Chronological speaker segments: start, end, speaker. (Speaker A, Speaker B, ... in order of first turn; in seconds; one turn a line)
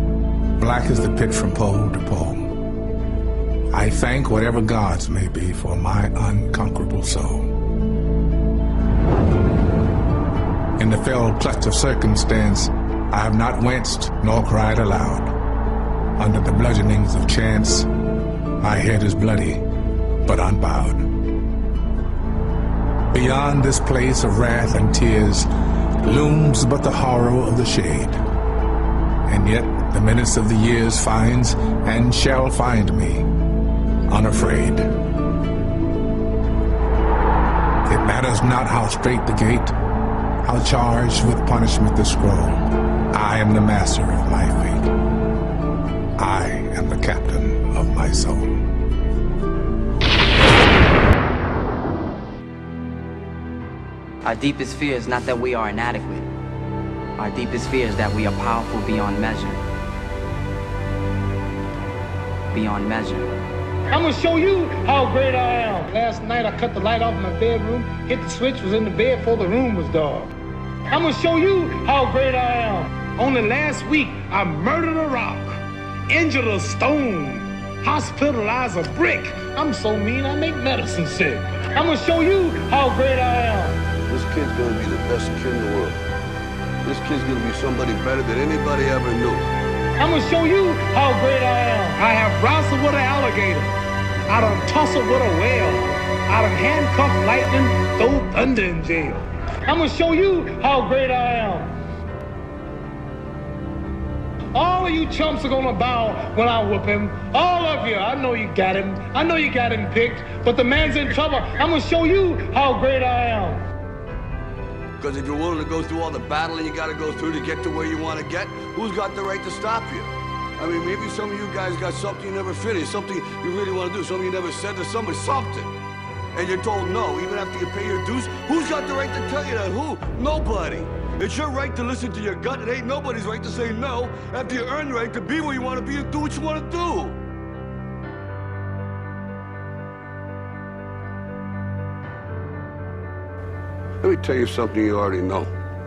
Speaker A: 0.6-2.4
Speaker A: 3.7-7.5
Speaker A: 10.8-15.3
Speaker A: 16.2-17.9
Speaker A: 18.6-19.6
Speaker A: 20.2-21.1
Speaker A: 23.1-25.5
Speaker A: 26.0-28.1
Speaker A: 29.3-33.2
Speaker A: 34.1-34.9
Speaker A: 37.9-39.7
Speaker A: 40.4-44.9
Speaker A: 46.2-48.5
Speaker B: 54.2-56.3
Speaker B: 57.2-59.6
Speaker B: 62.5-63.3
Speaker C: 63.9-70.3
Speaker C: 70.9-75.6
Speaker C: 76.1-83.8
Speaker D: 84.1-86.0
Speaker D: 86.8-89.5
Speaker C: 90.0-93.8
Speaker C: 94.3-101.7
Speaker C: 104.5-113.6
Speaker D: 115.0-125.7
Speaker D: 126.3-137.2
Speaker D: 144.0-145.5